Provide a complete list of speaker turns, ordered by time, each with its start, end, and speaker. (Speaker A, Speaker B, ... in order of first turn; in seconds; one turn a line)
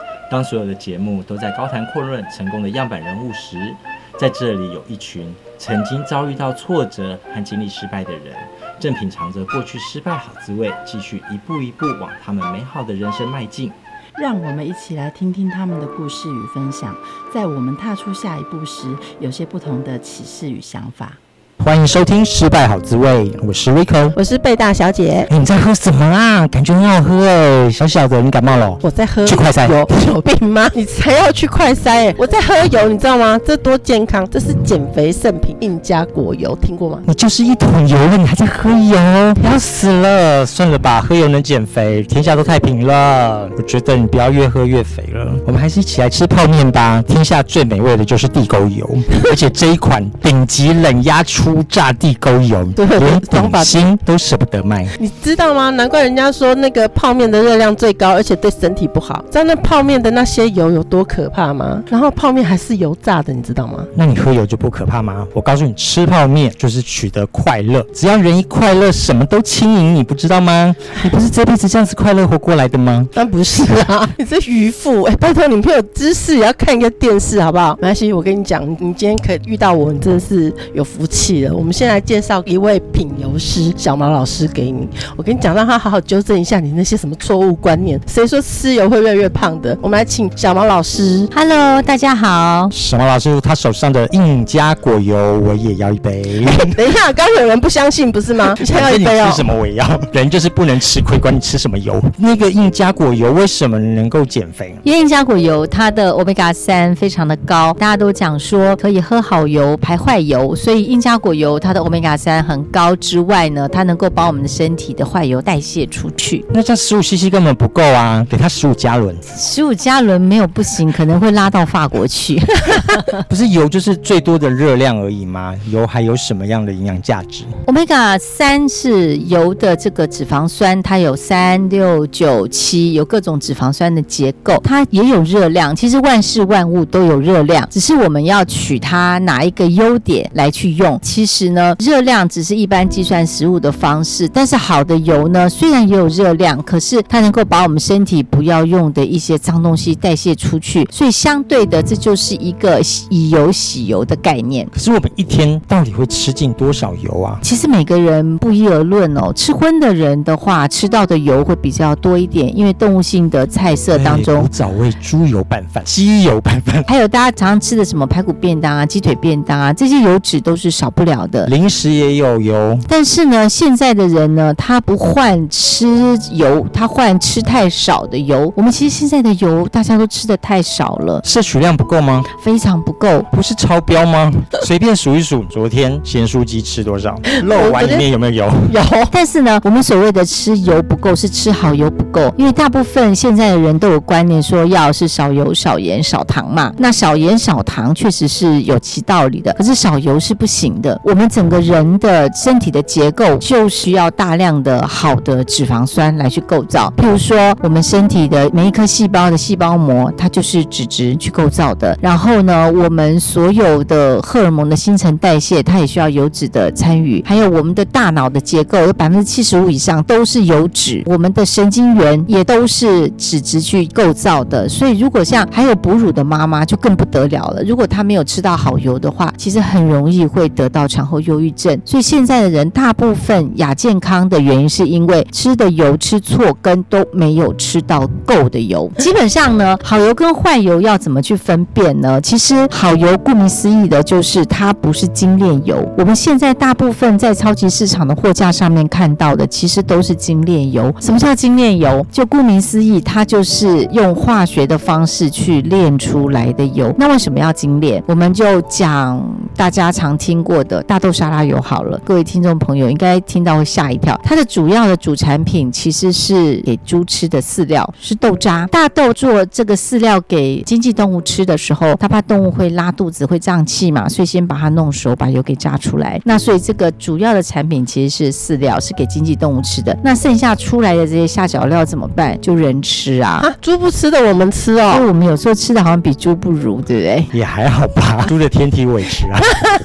Speaker A: 0.3-13.8
Speaker B: 14.2-21.2
Speaker C: 21.6-24.1
Speaker D: 24.1-25.3
Speaker C: 25.3-29.8
Speaker D: 28.8-37.0
Speaker C: 37.0-54.9
Speaker D: 52.8-53.8
Speaker D: 55.0-63.9
Speaker C: 63.9-73.1
Speaker D: 73.1-91.3
Speaker E: 91.3-92.7
Speaker C: 92.7-96.8
Speaker D: 96.5-99.5
Speaker C: 98.6-104.8
Speaker E: 104.8-116.4
Speaker C: 116.5-119.3
Speaker E: 119.3-123.2
Speaker C: 123.2-127.5
Speaker E: 127.7-154.7
Speaker C: 154.7-157.4
Speaker E: 157.4-164.5
Speaker C: 163.9-166.9
Speaker E: 166.8-171.5
Speaker C: 171.4-172.9
Speaker E: 172.9-181.2
Speaker C: 181.2-182.3
Speaker E: 182.4-183.3
Speaker C: 183.3-188.7
Speaker D: 187.3-188.1
Speaker D: 188.7-189.1
Speaker E: 189.1-283.5
Speaker D: 283.4-285.0
Speaker E: 284.9-287.3
Speaker C: 287.3-289.5